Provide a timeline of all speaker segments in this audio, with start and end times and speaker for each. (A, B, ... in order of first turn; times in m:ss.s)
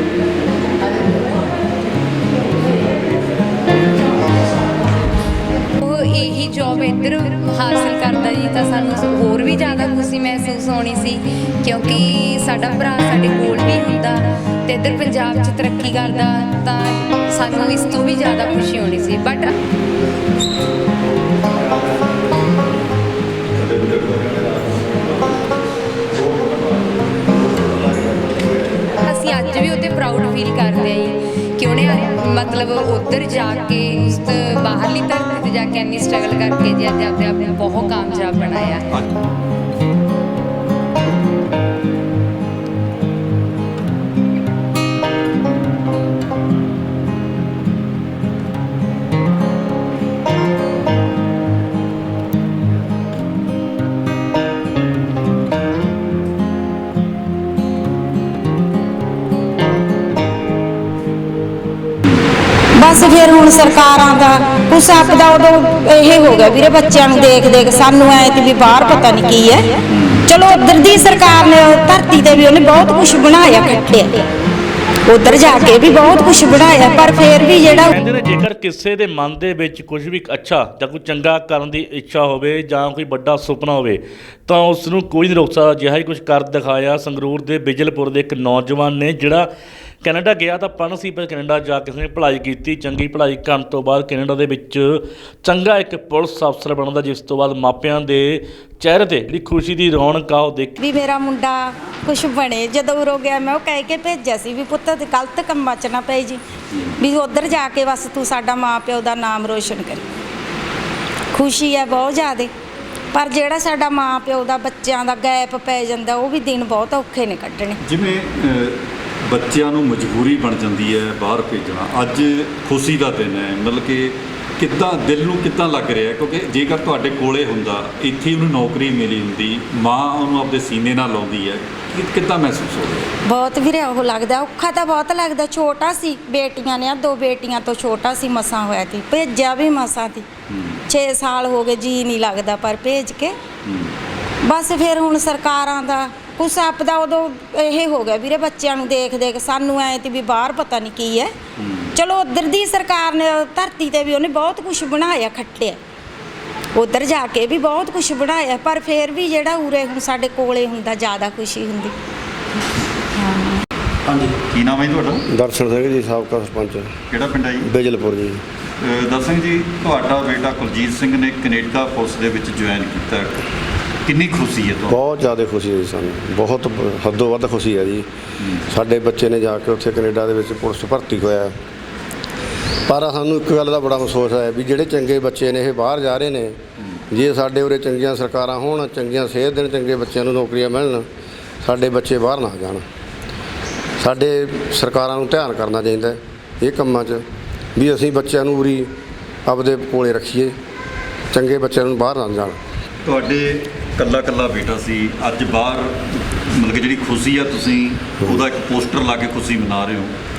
0:05.8-0:19.5 A
0:23.5-0:25.2 B
0:26.1-0:27.0 B
0:27.6-0:28.7 B
0:29.0-0:39.0 A
0:38.9-0:39.2 B
1:02.8-1:14.2 C
1:09.9-1:10.2 B
1:15.1-1:18.0 C
1:17.7-1:29.5 D
1:30.0-1:40.8 D
1:40.8-1:46.4 C
1:47.0-1:50.0 C
1:51.3-1:52.5 C
1:53.1-1:57.8 C
1:57.8-2:13.1 B
2:13.3-2:20.3 C
2:20.5-2:20.8 B
2:20.9-2:23.4 C
2:23.7-2:23.9 B
2:24.4-2:31.3 C
2:31.6-2:32.0 B
2:32.0-2:35.8 C
2:36.8-2:41.9 C
2:43.2-2:43.6 C
2:44.1-2:45.2 B
2:45.3-2:46.9 E
2:47.1-2:47.7 B
2:47.6-2:48.4 E
2:48.8-2:53.4 B
2:54.1-2:55.0 B
2:54.9-2:58.0 E
2:58.7-3:01.5 E
3:02.9-3:06.6 E
3:07.1-3:11.0 E
3:11.6-3:12.8 E
3:14.0-3:17.2 E
3:17.8-3:18.9 E
3:19.5-3:20.5 E
3:21.3-3:22.6 E
3:23.0-3:30.1 B